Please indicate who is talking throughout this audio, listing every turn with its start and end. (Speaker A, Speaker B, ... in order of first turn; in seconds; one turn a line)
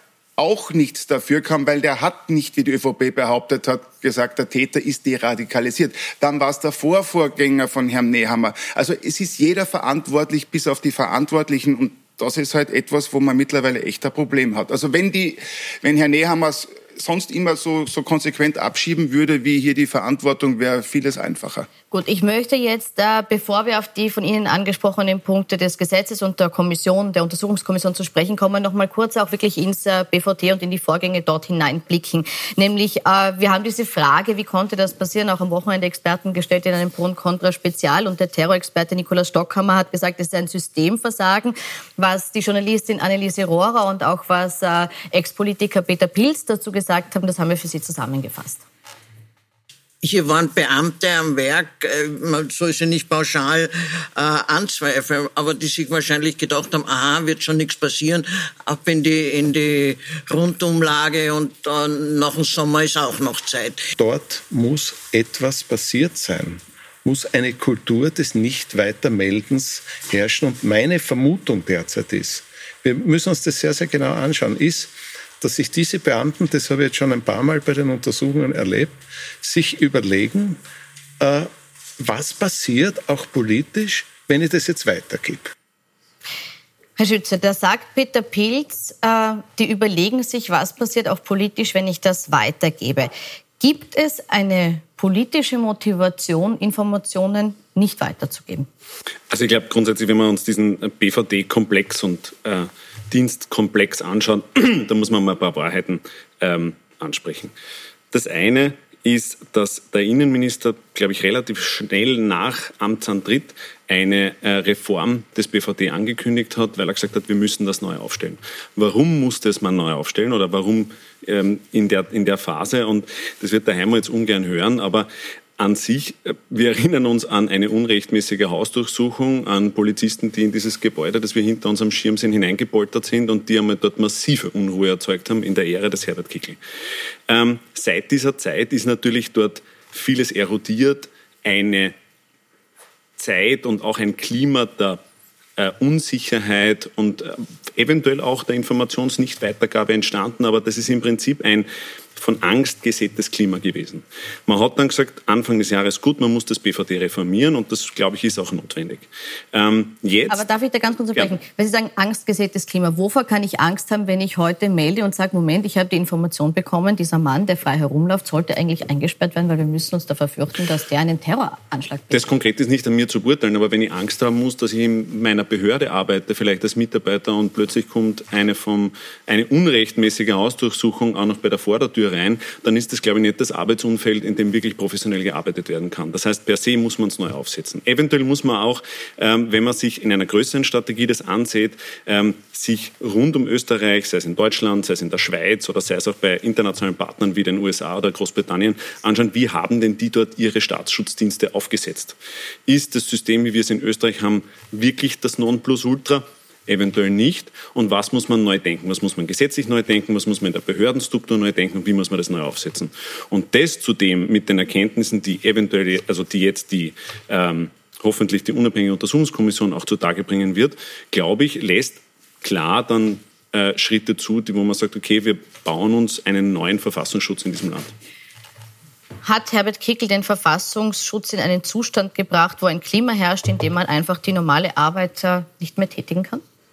Speaker A: 0.4-21.7
Speaker B: 21.9-48.6
Speaker C: 50.0-63.8
Speaker D: 64.0-80.6
Speaker D: 81.2-85.5
Speaker B: 87.0-98.7
Speaker E: 99.3-107.5
Speaker E: 108.1-136.6
Speaker E: 137.3-141.9
Speaker E: 143.2-145.0
Speaker E: 145.6-160.4
Speaker B: 160.3-172.3
Speaker E: 172.1-202.2
Speaker E: 202.7-227.9
Speaker B: 229.2-236.4